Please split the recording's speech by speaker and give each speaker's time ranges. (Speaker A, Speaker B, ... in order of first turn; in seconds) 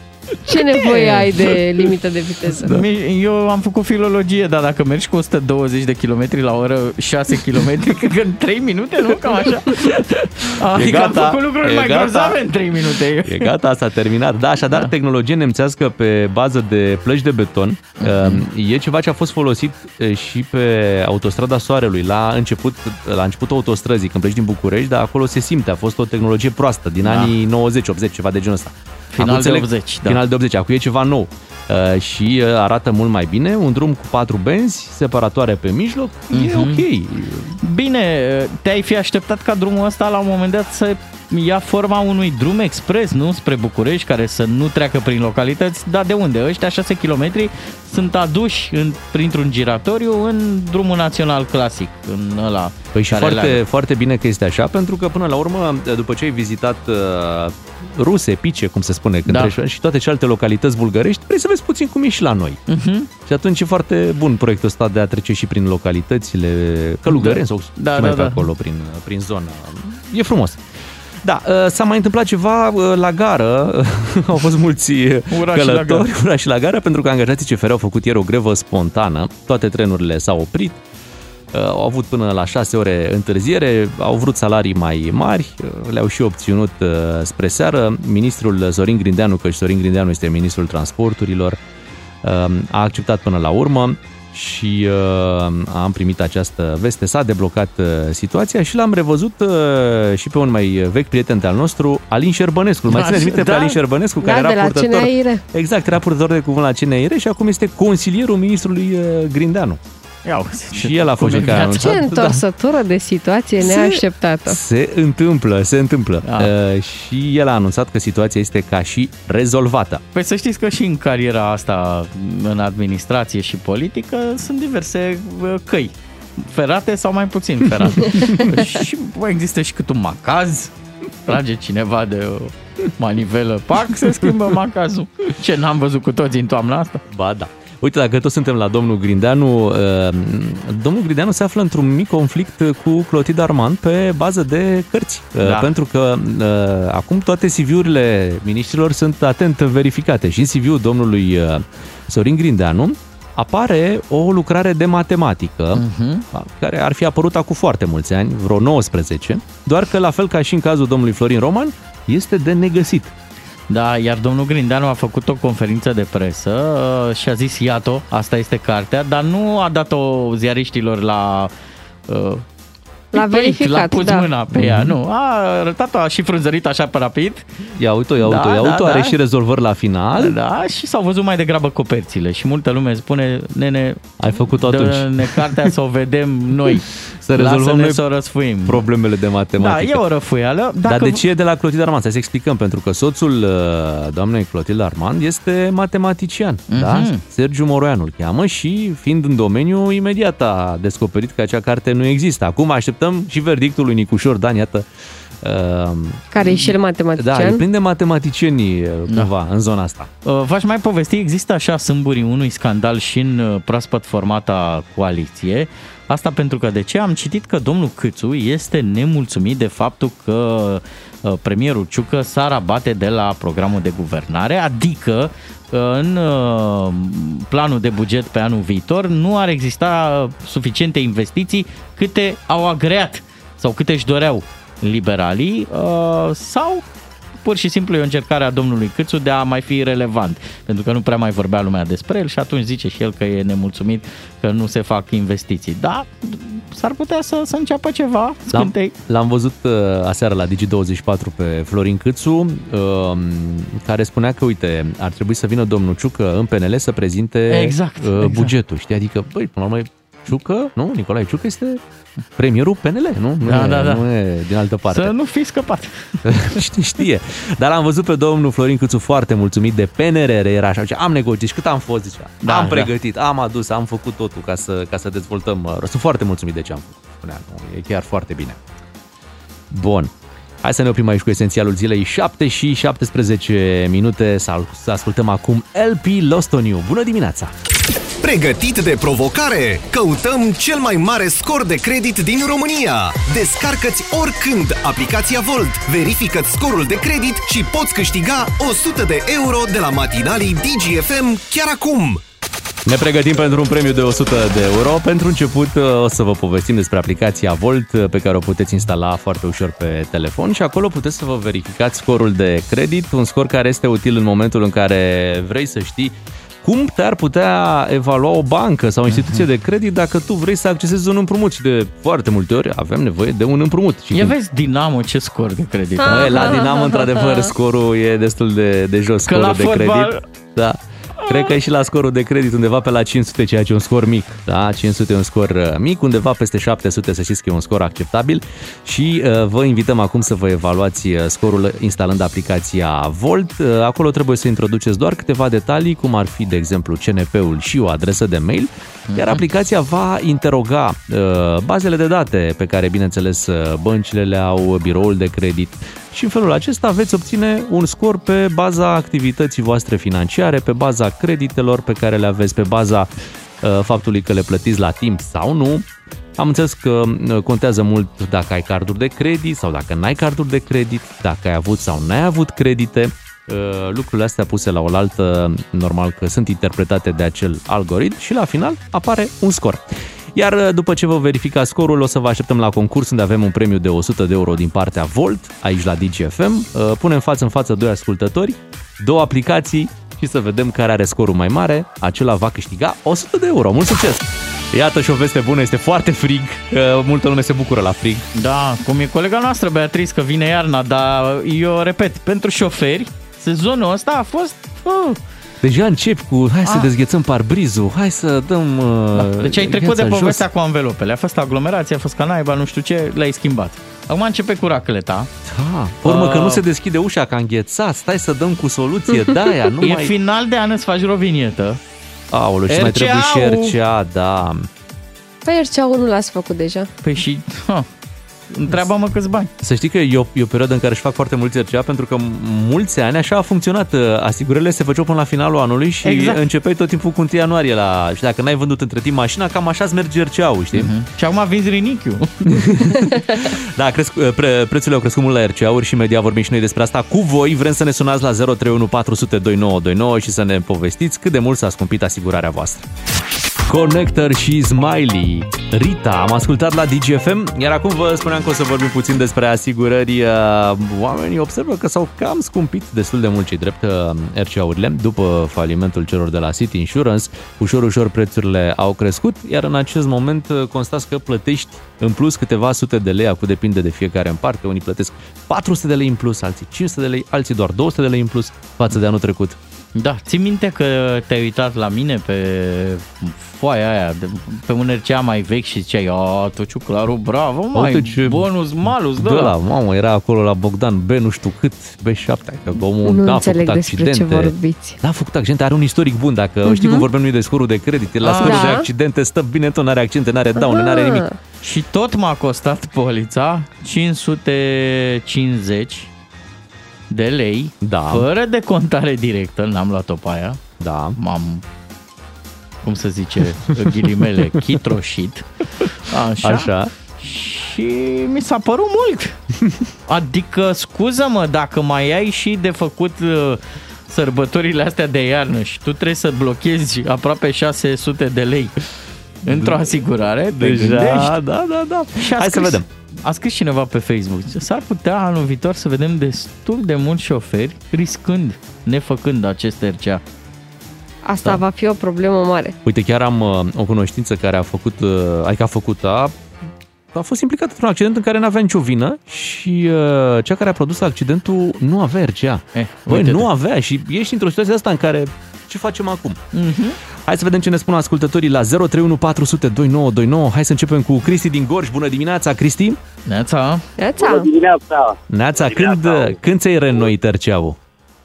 Speaker A: 0.5-2.7, 104.2-105.4, 111.8-114.6, 173.1-174.3, 206.3-207.6, 326.0-327.5, 425.4-426.9, 492.7-495.0, 496.6-497.1, 498.4-498.9, 500.6-501.4, 541.2-542.7, 564.0-564.5
Speaker B: 0.8-1.5, 2.6-13.5, 18.0-18.4, 27.0-27.3, 29.1-30.2, 36.3-36.8, 37.6-53.6, 59.3-59.6, 62.7-63.1, 67.1-68.5, 75.3-76.1, 102.9-103.8, 110.2-112.0, 116.2-116.5, 120.1-130.7, 131.3-137.0, 145.4-145.7, 155.8-156.2, 163.7-171.5, 172.1-172.4, 173.1-177.5, 178.2-179.2, 180.2-184.0, 184.6-188.8, 189.6-191.2, 196.7-197.2, 210.2-236.8, 237.4-248.9, 257.5-258.5, 263.4-264.1, 264.9-266.6, 272.4-272.9, 319.1-319.4, 324.1-326.5, 329.3-330.2, 331.2-331.5, 349.1-349.4, 398.3-405.2, 409.1-415.3, 416.0-416.6, 419.8-421.8, 422.7-423.7, 427.0-427.9, 428.5-429.5, 436.0-436.4, 440.7-442.6, 479.9-489.5, 498.2-498.7, 501.6-506.1, 507.1-510.6, 511.2-511.6, 512.8-519.4, 520.1-528.8, 529.4-531.4, 532.1-540.2, 552.7-553.5, 556.5-557.0, 563.3-563.9
Speaker C: 10.7-12.4, 13.2-37.5, 52.9-62.6, 63.2-70.6, 71.2-80.8, 81.5-91.6, 92.2-109.8, 110.7-112.4, 113.6-120.0, 137.1-163.1, 174.6-174.9, 177.7-180.3, 184.2-185.7, 187.2-188.0, 188.7-190.0, 190.8-204.9, 205.4-210.1, 248.5-261.8, 262.4-265.1, 266.2-278.6, 279.7-280.1, 280.6-287.5, 302.9-324.3, 326.1-363.1, 363.6-398.3, 405.6-410.4, 415.4-420.1, 422.3-424.7, 429.6-440.9, 442.5-452.9, 453.7-479.6, 487.7-488.5, 489.2-501.2, 507.8-508.3, 510.8-511.2, 516.4-516.9, 529.4-529.9, 530.5-532.9, 542.8-546.3, 547.1-556.4, 557.2-563.0, 565.3-567.8
Speaker D: 288.2-302.2
Speaker E: 564.2-566.3